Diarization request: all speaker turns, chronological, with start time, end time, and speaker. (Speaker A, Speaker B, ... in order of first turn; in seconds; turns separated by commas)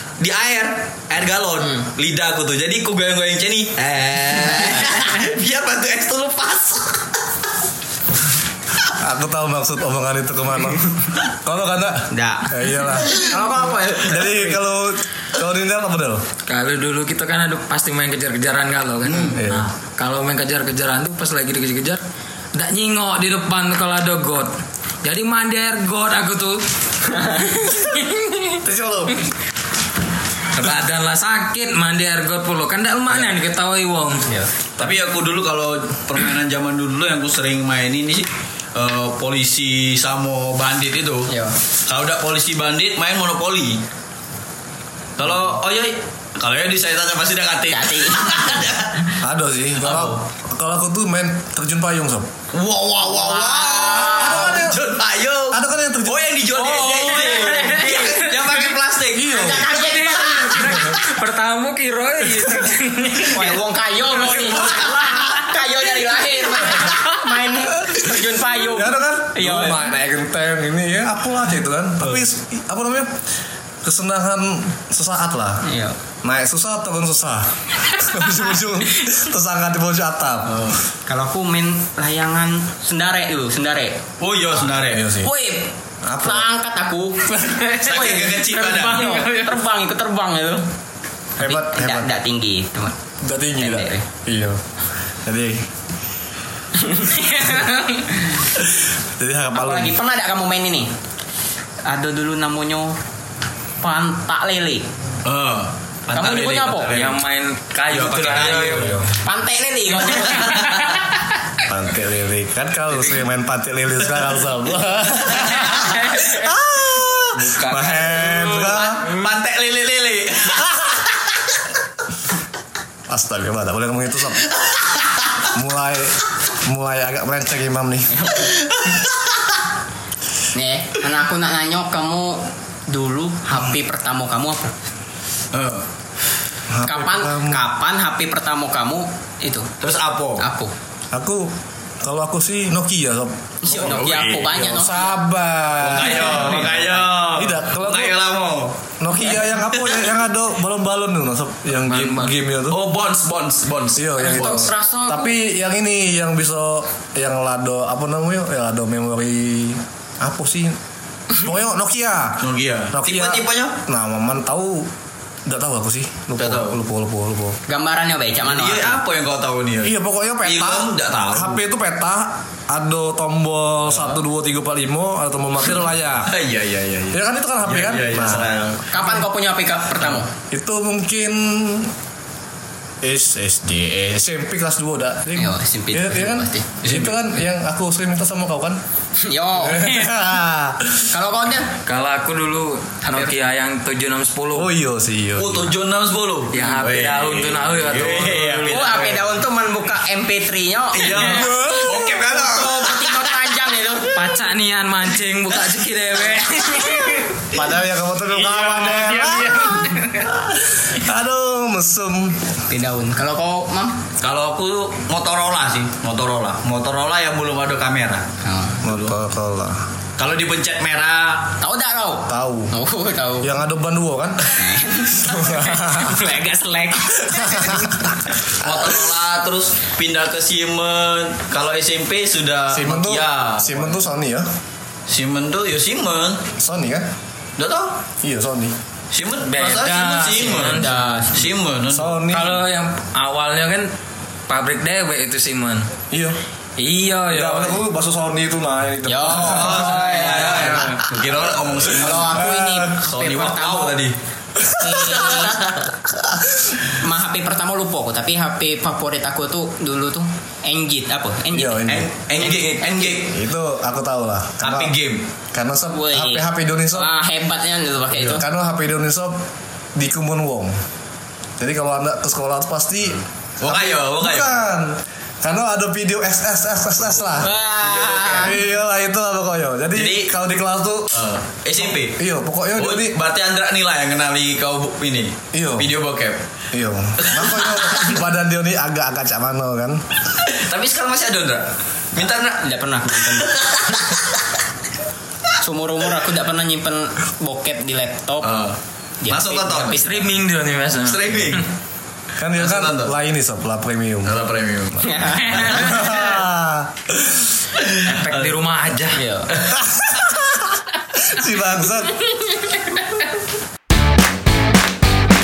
Speaker A: 0.2-7.1, Speaker B: 9.0-16.2, Speaker C: 12.1-14.5, Speaker D: 16.5-22.0, Speaker A: 19.1-19.4, Speaker B: 19.3-19.7, Speaker D: 22.5-28.6, Speaker B: 28.6-29.2, Speaker D: 30.5-34.3, Speaker A: 34.8-41.3, Speaker C: 41.3-41.5, Speaker A: 41.9-43.8, Speaker A: 45.2-49.1, Speaker C: 47.7-48.6, Speaker B: 49.2-52.3, Speaker A: 49.8-50.2, Speaker A: 52.5-59.6, Speaker C: 53.1-54.6, Speaker B: 53.9-54.8, Speaker B: 55.5-57.2, Speaker C: 56.6-57.9, Speaker D: 56.8-58.3, Speaker B: 59.1-59.7, Speaker C: 59.3-60.9, Speaker D: 59.5-63.6, Speaker B: 60.5-60.9, Speaker C: 63.2-69.9, Speaker D: 64.3-65.3, Speaker B: 68.6-73.1, Speaker B: 73.8-75.6, Speaker C: 75.6-76.0, Speaker B: 76.2-80.7, Speaker A: 80.5-80.8, Speaker C: 81.1-84.0, Speaker A: 84.2-85.1, Speaker B: 84.8-85.3, Speaker C: 85.2-90.7, Speaker B: 86.0-86.5, Speaker D: 87.3-89.6, Speaker A: 87.8-89.1, Speaker B: 91.4-92.1, Speaker C: 91.4-92.9, Speaker B: 93.2-94.6, Speaker C: 93.6-94.1, Speaker B: 95.2-95.7, Speaker C: 96.8-98.4, Speaker B: 99.2-100.0, Speaker C: 99.5-100.9, Speaker C: 101.8-103.0, Speaker C: 103.8-104.9, Speaker A: 105.2-107.2, Speaker C: 106.1-106.9, Speaker D: 106.9-109.0, Speaker A: 107.9-109.0, Speaker B: 108.7-109.1, Speaker C: 109.2-110.8, Speaker A: 110.1-110.9, Speaker B: 111.7-119.1, Speaker A: 112.9-113.2, Speaker D: 117.4-118.8, Speaker A: 118.1-120.8, Speaker B: 123.1-124.4, Speaker B: 125.5-128.2, Speaker C: 128.1-128.5, Speaker A: 128.4-129.1, Speaker C: 130.5-134.7, Speaker A: 135.5-135.8, Speaker B: 136.7-137.6, Speaker C: 136.8-139.7, Speaker A: 139.8-140.4, Speaker C: 140.4-140.7, Speaker B: 141.1-143.9, Speaker C: 143.6-145.2, Speaker A: 143.7-144.6, Speaker B: 144.6-148.2, Speaker A: 145.8-148.8, Speaker B: 149.0-152.8, Speaker A: 149.7-150.1, Speaker D: 151.8-152.3, Speaker A: 152.7-154.6, Speaker B: 153.9-160.8, Speaker C: 154.2-155.3, Speaker B: 161.3-164.9, Speaker A: 162.4-163.8, Speaker B: 165.4-167.6, Speaker A: 166.4-166.7, Speaker C: 167.7-169.0, Speaker A: 168.4-171.6, Speaker B: 169.8-176.4, Speaker A: 173.9-174.2, Speaker A: 176.2-178.9, Speaker B: 177.1-178.5, Speaker C: 178.9-180.3, Speaker B: 180.5-181.9, Speaker B: 183.0-188.8, Speaker C: 185.3-186.7, Speaker A: 186.8-187.2, Speaker C: 189.2-190.1, Speaker B: 189.6-191.1, Speaker C: 191.1-191.7, Speaker D: 191.8-194.7, Speaker C: 193.0-193.3, Speaker B: 194.5-195.7, Speaker A: 195.4-199.3, Speaker D: 196.5-199.2, Speaker C: 198.7-204.2, Speaker A: 200.9-203.0, Speaker D: 201.1-201.4, Speaker B: 201.2-202.2, Speaker D: 204.1-207.4, Speaker B: 207.5-212.5, Speaker D: 208.5-210.3, Speaker C: 212.7-214.1, Speaker A: 214.2-218.3, Speaker C: 218.4-218.8, Speaker B: 218.8-219.8, Speaker A: 218.8-219.2, Speaker A: 220.2-221.6, Speaker C: 221.6-223.5, Speaker B: 222.3-222.7, Speaker B: 223.4-224.5, Speaker C: 224.5-228.2, Speaker B: 225.2-226.2, Speaker B: 227.3-229.1, Speaker A: 228.6-234.0, Speaker B: 232.7-234.5, Speaker A: 235.1-236.4, Speaker B: 236.6-237.1, Speaker A: 237.6-238.0, Speaker B: 238.2-238.8, Speaker A: 239.1-242.2, Speaker D: 239.4-241.2, Speaker C: 240.6-241.4, Speaker B: 241.9-242.6, Speaker D: 242.3-243.9, Speaker D: 244.5-245.9, Speaker B: 246.1-246.4, Speaker D: 246.8-247.8, Speaker B: 247.3-250.9, Speaker C: 249.1-251.1, Speaker A: 249.3-254.2, Speaker D: 250.1-251.0, Speaker B: 251.9-252.9, Speaker C: 252.0-254.0, Speaker B: 254.6-255.4, Speaker C: 254.8-255.7, Speaker A: 255.1-255.9, Speaker C: 256.9-263.2, Speaker B: 261.5-262.1, Speaker A: 261.9-263.3, Speaker B: 263.2-264.9, Speaker A: 264.6-265.2, Speaker B: 265.5-267.1, Speaker C: 265.9-268.4, Speaker B: 268.1-269.4, Speaker B: 269.9-270.8, Speaker B: 271.6-281.2, Speaker A: 273.6-274.6, Speaker A: 277.1-277.5, Speaker C: 277.4-278.6, Speaker A: 279.9-280.3, Speaker A: 281.1-282.2, Speaker B: 281.8-283.1, Speaker A: 282.8-286.4, Speaker B: 285.5-285.9, Speaker B: 286.7-290.0, Speaker A: 287.2-288.1, Speaker A: 290.4-294.4, Speaker C: 292.1-293.6, Speaker C: 295.6-298.5, Speaker A: 298.4-300.1, Speaker C: 299.2-300.3, Speaker D: 299.9-301.6, Speaker A: 301.0-301.6, Speaker B: 302.4-304.4, Speaker A: 302.6-303.1, Speaker A: 304.2-306.0, Speaker C: 305.0-305.7, Speaker B: 305.5-307.5, Speaker A: 307.8-308.6, Speaker D: 308.0-309.2, Speaker C: 309.1-309.5, Speaker A: 309.5-309.8, Speaker B: 309.7-312.3